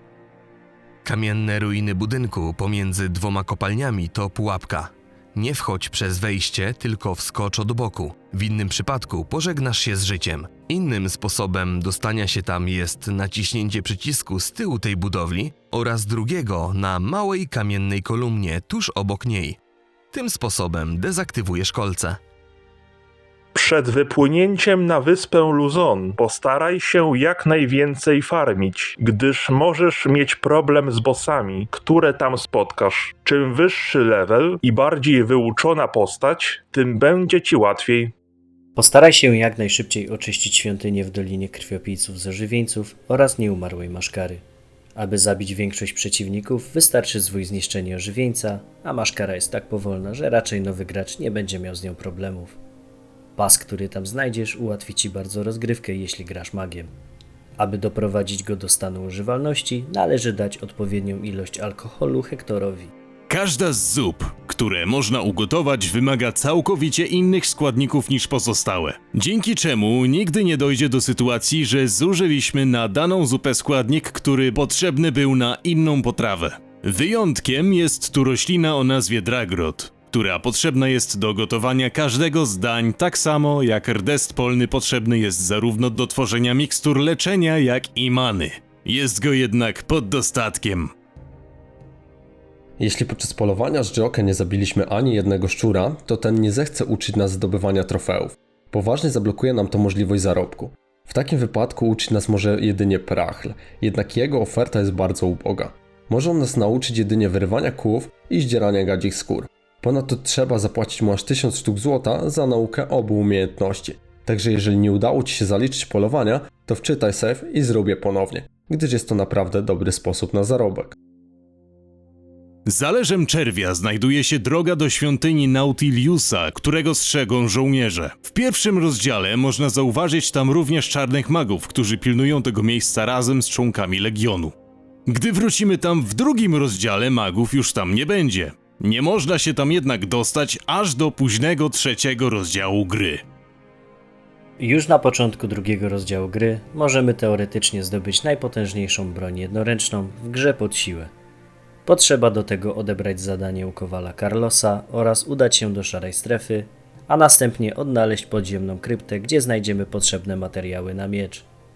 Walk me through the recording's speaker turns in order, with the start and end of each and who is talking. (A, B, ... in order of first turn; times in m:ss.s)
0:01.0-0:19.6 A
0:20.1-0:22.2 A
0:23.5-0:38.1 B
0:38.8-0:44.4 C
0:45.0-0:52.6 C
0:53.4-0:56.9 C
0:57.6-1:02.9 C
1:03.3-1:30.9 D
1:32.8-2:01.0 E
2:02.7-2:14.6 D
2:15.1-2:23.2 D
2:24.6-2:31.1 C
2:31.9-2:41.5 C